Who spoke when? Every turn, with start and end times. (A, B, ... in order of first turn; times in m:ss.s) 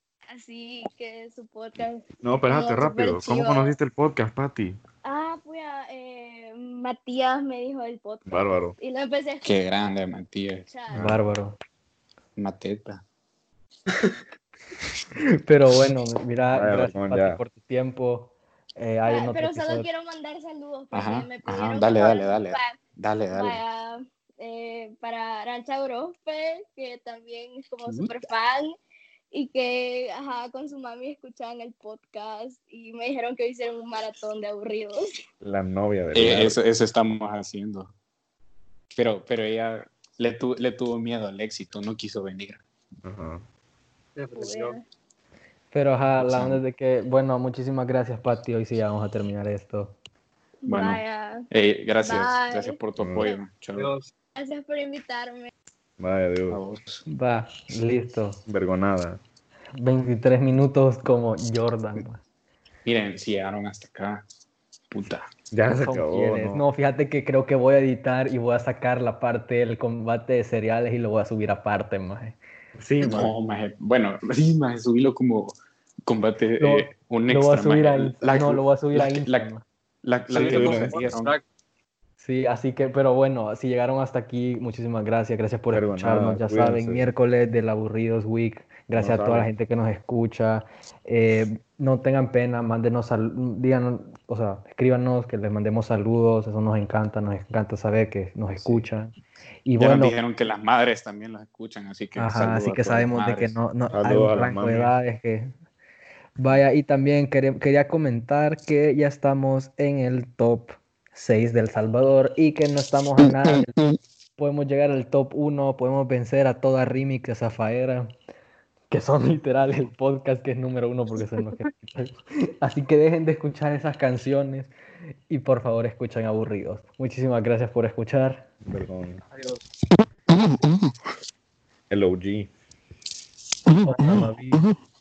0:00.3-0:03.7 A
0:02.2-0:04.8 B
0:05.0-0:09.7 A
0:08.2-0:08.8 B
0:09.4-0:10.7 C
0:10.7-0:11.0 A
0:10.9-0:11.2 B
0:10.9-0:11.6 D
0:12.4-0:13.0 C
0:15.4-0:19.9 D
0:16.5-0:17.4 B
0:19.0-0:28.7 A
0:20.9-0:23.6 C
0:27.8-0:28.2 C
0:29.3-0:35.1 A
0:35.4-0:36.6 B
0:36.1-0:37.9 C
0:38.9-0:42.6 C
0:43.0-0:43.4 B
0:44.1-0:44.8 E
0:44.3-0:44.8 A
0:45.7-0:50.0 D
0:46.2-0:46.5 B
0:50.6-0:51.4 A
0:50.7-0:53.9 C
0:52.0-0:53.4 A
0:53.0-0:53.3 B
0:53.7-0:54.1 E
0:54.3-0:55.5 A
0:56.0-0:56.6 B
0:56.5-0:57.0 C
0:57.1-0:58.4 D
0:58.4-0:59.2 B
0:59.7-1:02.2 D
1:02.8-1:04.2 C
1:04.9-1:05.3 C
1:05.5-1:06.6 B
1:05.7-1:12.4 D
1:12.8-1:13.3 B
1:13.0-1:19.5 C
1:16.6-1:19.6 D
1:20.0-1:21.3 C
1:20.3-1:21.4 E
1:20.4-1:21.1 B
1:22.2-1:40.2 D
1:25.7-1:27.1 B
1:28.9-1:29.5 B
1:38.5-1:38.9 C
1:39.8-1:43.6 C
1:42.2-1:45.5 D
1:43.9-1:45.0 B
1:46.4-1:53.8 D
1:54.4-1:58.1 D
1:58.9-2:04.7 D
2:05.3-2:08.5 D
2:08.6-2:09.2 B
2:09.3-2:09.6 E
2:11.9-2:12.5 B
2:13.8-2:14.6 D